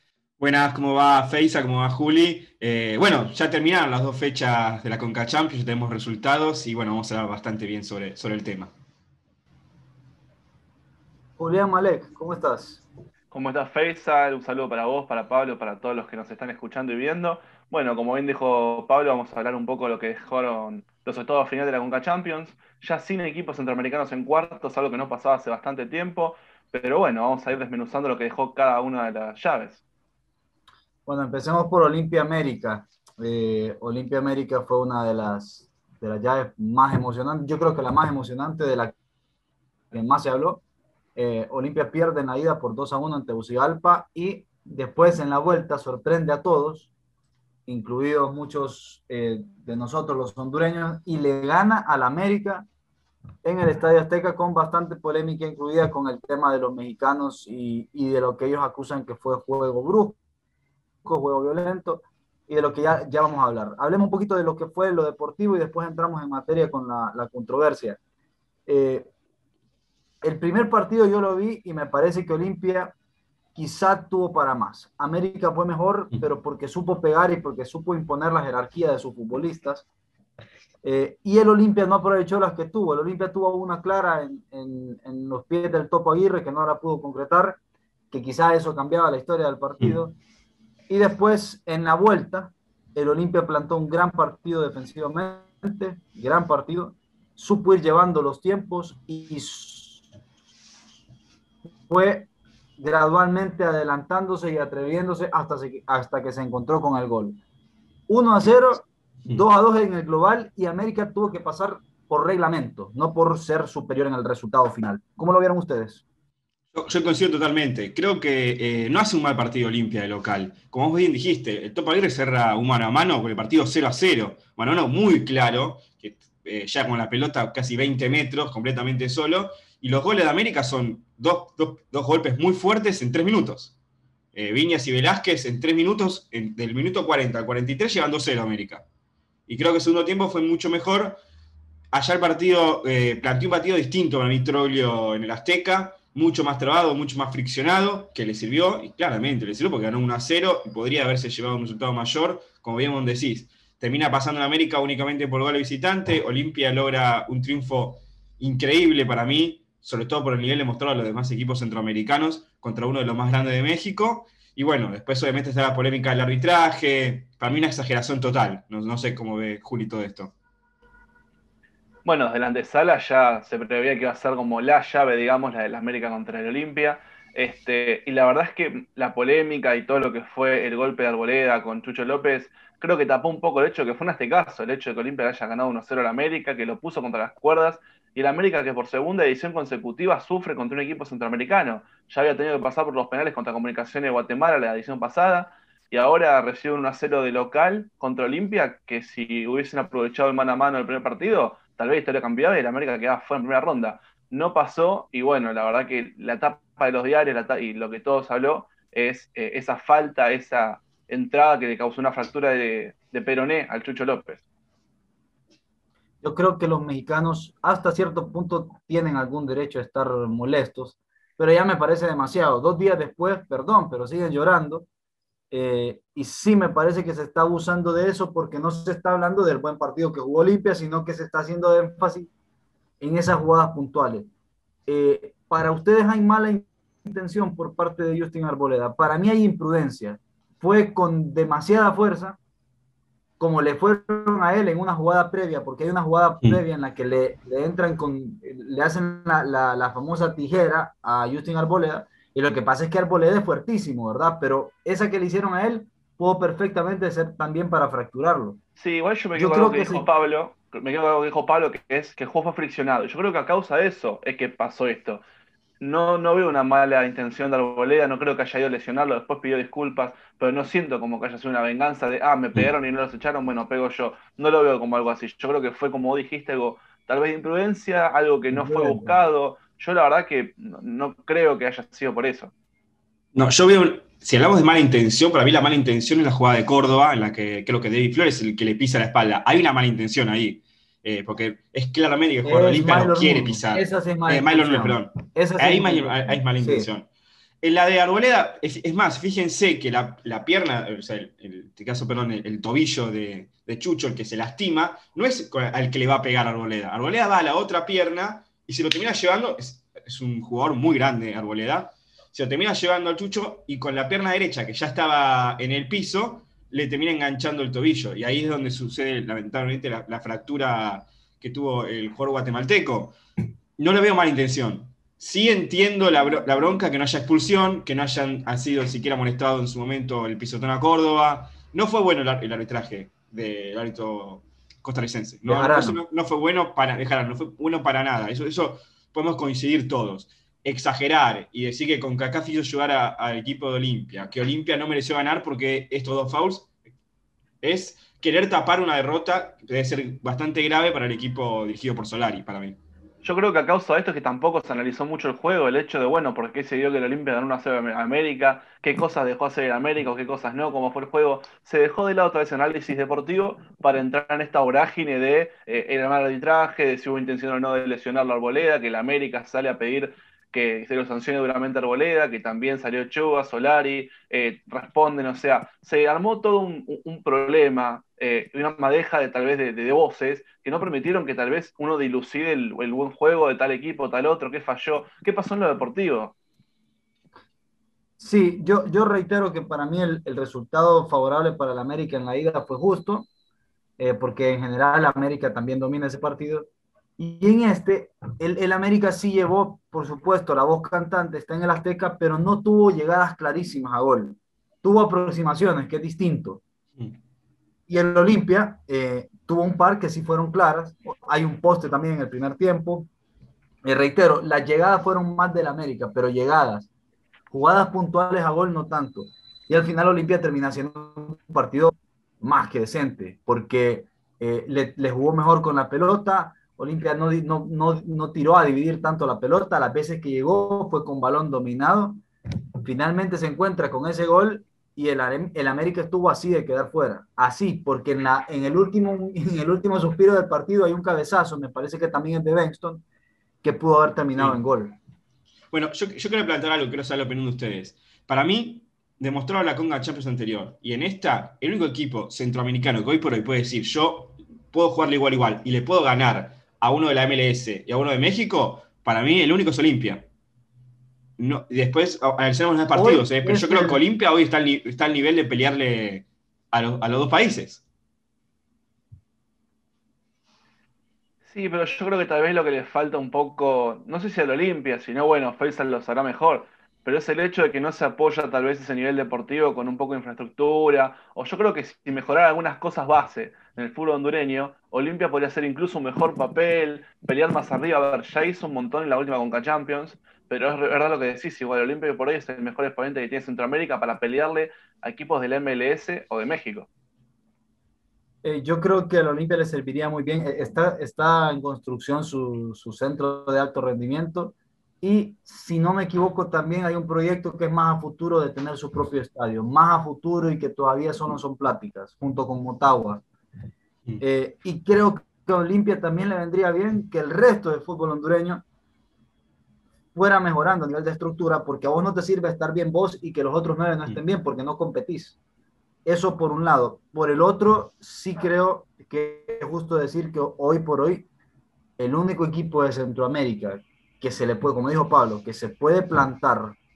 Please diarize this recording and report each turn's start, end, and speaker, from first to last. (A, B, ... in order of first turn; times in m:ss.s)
0:00.4-0:08.7 A
0:11.4-0:12.8 B
0:13.3-0:29.8 C
0:31.1-0:39.0 B
0:39.9-0:40.6 B
0:41.2-0:46.9 B
0:47.7-0:52.7 B
0:53.4-1:00.2 B
1:01.0-1:08.0 B
1:08.7-1:09.1 B
1:10.2-1:12.9 B
1:13.6-1:19.9 B
1:20.8-1:27.6 B
1:28.1-1:30.2 B
1:30.9-1:40.0 B
1:41.9-1:47.4 B
1:48.1-1:56.0 B
1:56.7-2:13.7 A
2:14.3-2:18.8 A
2:19.5-2:21.2 A
2:21.9-2:50.3 A
2:52.0-3:34.4 C
3:36.2-3:44.9 B
3:45.5-3:52.3 B
3:53.0-3:54.3 B
3:54.9-4:02.4 B
4:03.4-4:18.6 B
4:18.8-4:25.2 C
4:19.4-4:20.0 B
4:25.8-4:42.5 C
4:38.5-4:39.2 B
4:43.3-4:57.1 A
4:52.4-4:56.9 B
4:57.6-5:23.2 A
5:23.8-5:46.7 A
5:35.4-5:36.0 B
5:47.6-5:52.8 A
5:53.2-6:26.3 C
6:28.2-6:33.3 B
6:34.0-6:46.6 B
6:47.9-6:53.1 B
6:53.8-6:56.9 B
6:57.5-7:12.2 B
7:12.8-7:23.0 B
7:23.6-7:25.0 B
7:25.7-7:40.3 A
7:41.4-7:47.8 A
7:42.9-7:44.0 B
7:51.5-8:16.9 C
8:18.4-8:33.2 B
8:34.2-8:38.6 B
8:40.2-8:45.4 B
8:46.0-8:51.3 B
8:52.0-8:56.8 B